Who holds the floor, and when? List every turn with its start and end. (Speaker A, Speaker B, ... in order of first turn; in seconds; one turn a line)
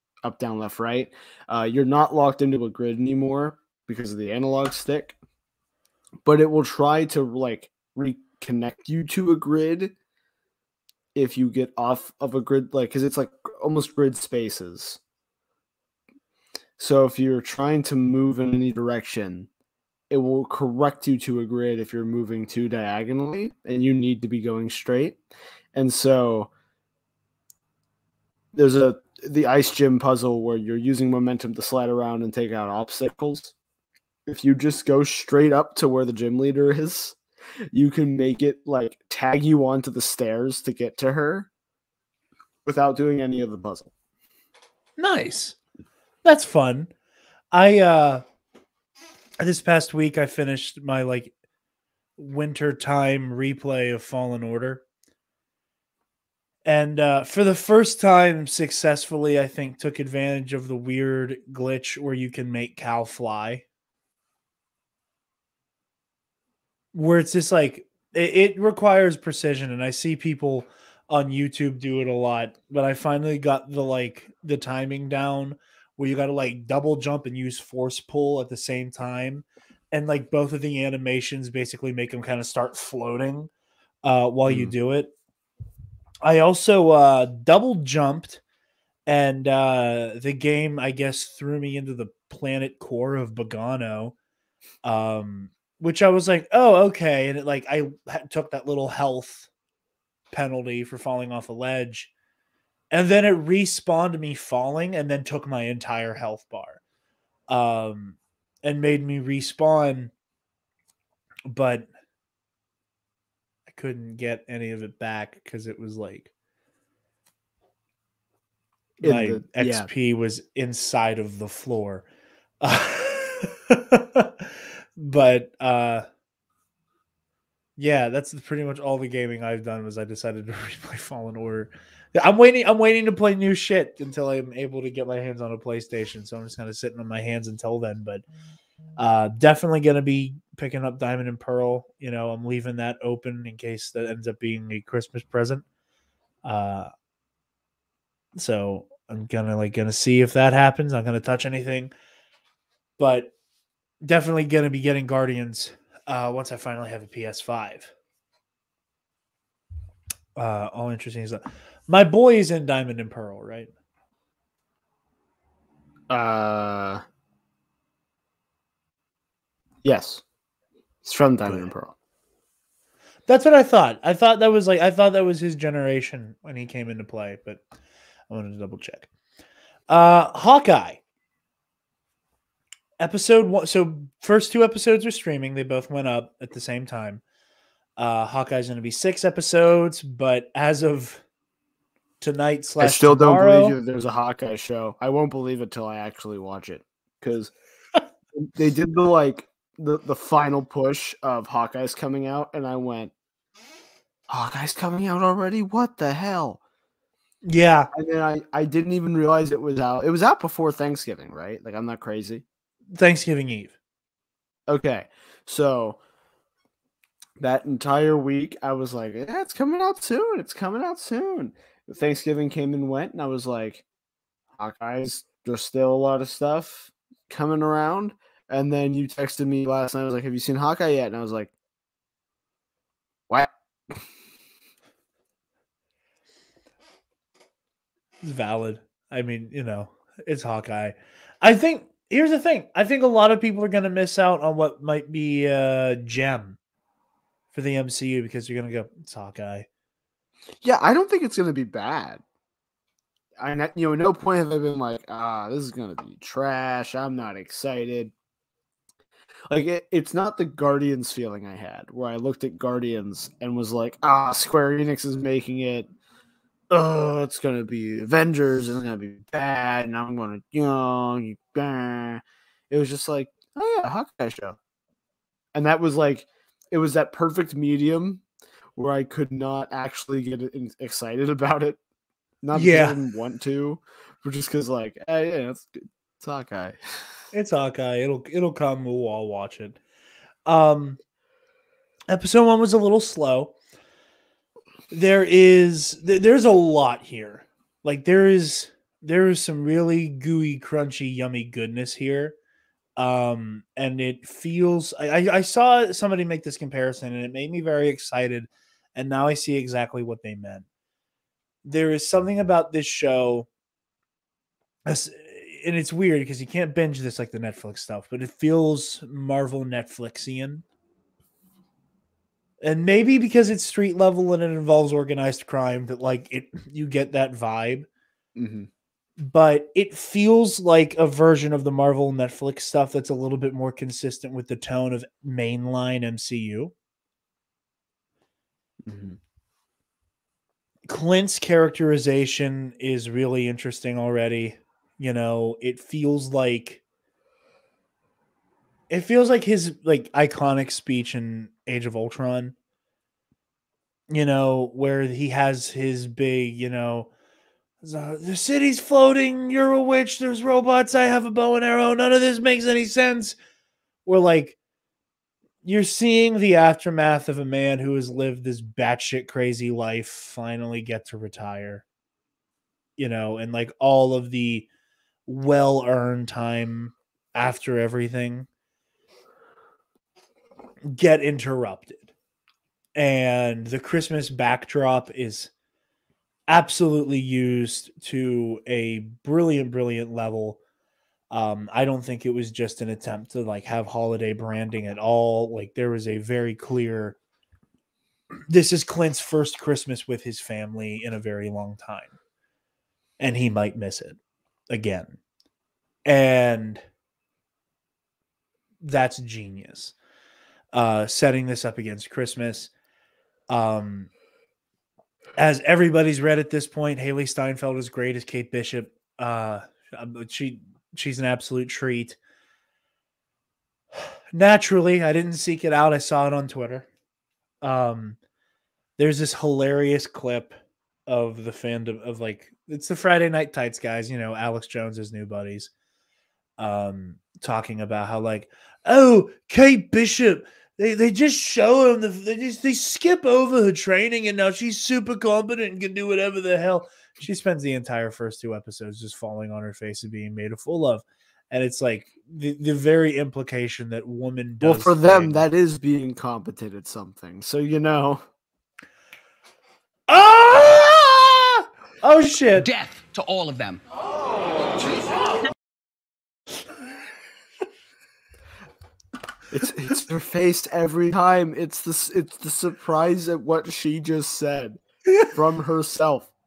Speaker A: 0.2-5.2
Speaker A: 6.2-9.9
Speaker A: 11.1-15.0
Speaker A: 16.8-19.5
Speaker A: 20.1-25.2
Speaker A: 25.7-26.5
Speaker A: 28.5-33.5
Speaker A: 34.2-37.1
Speaker A: 37.7-41.5
Speaker A: 42.6-43.9
Speaker B: 45.0-45.6
Speaker B: 46.2-46.9
Speaker B: 47.5-48.2
Speaker B: 49.4-51.3
Speaker B: 52.2-54.8
Speaker B: 56.6-63.6
Speaker B: 66.9-83.5
Speaker B: 84.0-85.1
Speaker A: 84.5-84.7
Speaker B: 86.2-88.4
Speaker B: 89.0-94.1
Speaker B: 94.8-99.5
Speaker B: 100.3-102.1
Speaker B: 102.9-106.8
Speaker B: 107.5-110.1
Speaker B: 111.5-111.9
Speaker B: 113.7-116.3
Speaker B: 119.0-122.0
Speaker A: 119.0-119.9
Speaker B: 122.6-126.0
Speaker B: 127.8-138.2
Speaker B: 139.0-145.6
Speaker B: 146.4-146.9
Speaker B: 148.3-151.9
Speaker B: 153.0-153.3
Speaker B: 154.0-157.9
Speaker B: 160.3-163.7
Speaker A: 166.1-167.0
Speaker A: 169.8-170.2
Speaker A: 171.0-171.9
Speaker B: 173.3-177.6
Speaker B: 178.3-179.1
Speaker B: 179.9-181.0
Speaker B: 183.0-187.2
Speaker B: 188.0-191.2
Speaker B: 192.2-193.8
Speaker A: 192.8-197.5
Speaker A: 198.3-203.1
Speaker A: 204.3-206.6
Speaker B: 207.4-207.9
Speaker A: 207.9-212.4
Speaker B: 212.9-213.7
Speaker A: 214.7-216.0
Speaker A: 217.4-223.8
Speaker A: 224.6-231.5
Speaker A: 233.3-234.0
Speaker B: 238.2-246.6
Speaker B: 247.5-249.7
Speaker A: 250.6-252.2
Speaker A: 253.4-258.1
Speaker A: 259.5-265.9
Speaker A: 266.7-274.6
Speaker A: 275.5-278.2
Speaker A: 278.8-281.8
Speaker A: 282.4-286.8
Speaker B: 282.5-283.0
Speaker B: 287.3-289.8
Speaker B: 290.4-291.0
Speaker B: 292.1-293.5
Speaker B: 294.9-302.3
Speaker B: 303.0-310.6
Speaker B: 311.6-313.5
Speaker B: 314.9-320.6
Speaker B: 322.6-327.9
Speaker A: 328.3-328.7
Speaker B: 329.2-336.7
Speaker A: 338.8-339.2
Speaker B: 340.9-346.8
Speaker B: 348.9-352.5
Speaker B: 354.1-357.1
Speaker B: 357.8-363.4
Speaker B: 364.0-364.6
Speaker B: 365.6-371.8
Speaker B: 373.0-374.7
Speaker B: 375.2-378.5
Speaker B: 380.9-382.1
Speaker B: 382.9-385.5
Speaker B: 386.5-390.6
Speaker B: 391.3-397.2
Speaker B: 398.5-402.1
Speaker B: 403.2-404.2
Speaker B: 404.7-405.2
Speaker B: 406.1-406.8
Speaker B: 408.8-409.9
Speaker B: 410.7-412.7
Speaker B: 413.5-414.1
Speaker B: 415.4-422.2
Speaker B: 424.3-426.9
Speaker B: 427.6-428.2
Speaker B: 429.0-430.5
Speaker B: 431.1-435.7
Speaker B: 436.6-455.4
Speaker A: 454.6-458.2
Speaker B: 460.1-462.7
Speaker C: 462.5-463.8
Speaker C: 464.7-465.3
Speaker A: 469.5-476.3